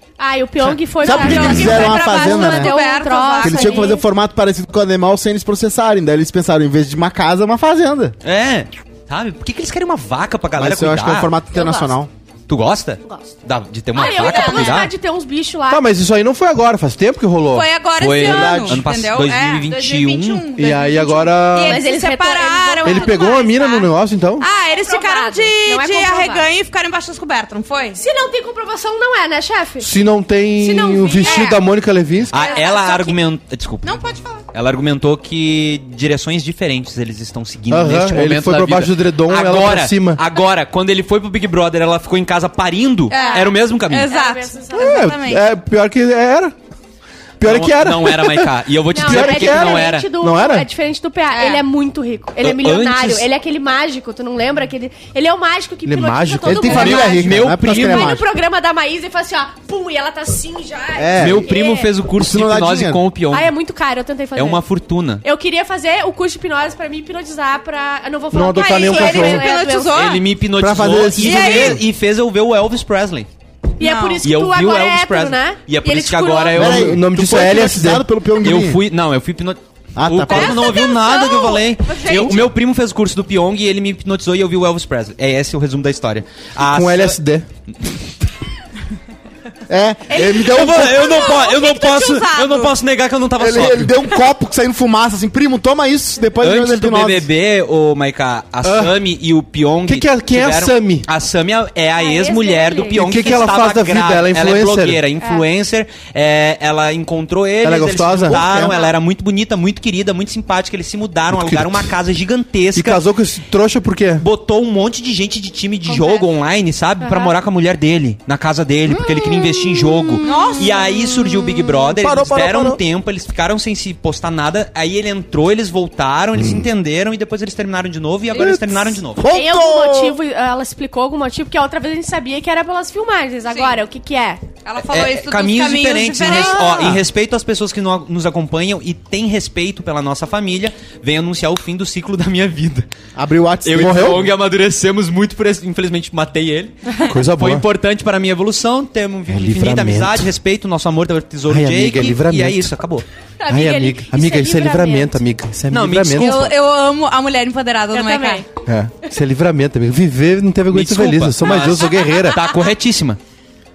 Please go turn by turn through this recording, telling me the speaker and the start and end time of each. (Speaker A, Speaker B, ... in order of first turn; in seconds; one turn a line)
Speaker A: 0.2-4.0
Speaker B: 1.0-2.8
Speaker C: 1.1-4.0
Speaker B: 3.4-8.2
Speaker D: 8.2-11.3
Speaker B: 10.6-12.1
Speaker A: 11.5-12.0
Speaker D: 12.5-14.9
Speaker A: 13.0-13.3
Speaker A: 13.9-15.8
Speaker C: 14.0-14.9
Speaker E: 15.7-17.7
Speaker C: 17.5-23.9
Speaker D: 18.0-20.5
Speaker B: 18.2-18.8
Speaker E: 20.6-21.8
Speaker A: 21.6-23.8
Speaker E: 22.8-24.4
Speaker C: 24.4-28.0
Speaker A: 24.7-26.5
Speaker A: 27.9-29.9
Speaker E: 29.8-32.3
Speaker A: 30.6-31.5
Speaker C: 31.2-31.6
Speaker D: 32.3-34.0
Speaker A: 32.3-33.2
Speaker C: 32.4-33.1
Speaker C: 33.8-34.5
Speaker D: 34.5-44.1
Speaker E: 37.7-40.2
Speaker C: 43.1-45.5
Speaker A: 43.1-45.1
Speaker E: 44.8-46.5
Speaker E: 47.4-50.7
Speaker D: 47.4-50.1
Speaker A: 48.9-61.9
Speaker C: 51.3-51.6
Speaker D: 52.4-53.3
Speaker E: 55.8-57.3
Speaker B: 56.5-58.2
Speaker D: 56.7-58.2
Speaker B: 60.9-61.5
Speaker D: 61.2-63.5
Speaker B: 62.1-63.0
Speaker A: 63.3-64.6
Speaker D: 64.3-65.2
Speaker A: 65.2-70.2
Speaker E: 68.3-69.5
Speaker C: 68.5-70.2
Speaker D: 69.9-73.3
Speaker B: 70.6-71.8
Speaker E: 70.6-71.7
Speaker C: 71.2-71.8
Speaker A: 73.8-76.5
Speaker C: 73.8-74.2
Speaker D: 74.2-77.0
Speaker E: 76.5-78.1
Speaker B: 76.5-78.8
Speaker D: 78.4-87.2
Speaker B: 79.9-80.8
Speaker C: 80.3-82.5
Speaker A: 81.3-82.3
Speaker E: 86.6-87.5
Speaker B: 89.7-91.0
Speaker D: 90.1-93.9
Speaker C: 90.3-92.8
Speaker B: 93.4-97.3
Speaker D: 96.4-113.0
Speaker E: 98.6-99.0
Speaker E: 99.8-101.1
Speaker A: 102.0-103.2
Speaker E: 102.9-105.0
Speaker E: 107.6-108.8
Speaker E: 111.3-111.9
Speaker E: 112.7-114.2
Speaker D: 114.2-129.2
Speaker C: 115.9-116.2
Speaker A: 117.0-117.3
Speaker B: 119.1-120.1
Speaker C: 120.2-120.8
Speaker B: 121.9-122.8
Speaker B: 128.4-130.2
Speaker A: 129.2-134.4
Speaker C: 133.5-133.8
Speaker C: 134.6-137.0
Speaker D: 134.9-142.9
Speaker A: 136.3-136.7
Speaker B: 143.1-144.2
Speaker D: 143.6-153.0
Speaker E: 143.7-144.2
Speaker E: 147.1-147.7
Speaker E: 149.3-150.2
Speaker E: 151.5-152.7
Speaker A: 153.4-155.2
Speaker E: 153.5-156.4
Speaker D: 155.7-156.5
Speaker C: 156.1-158.4
Speaker A: 157.9-158.5
Speaker E: 158.6-162.4
Speaker D: 160.7-163.2
Speaker C: 161.6-162.7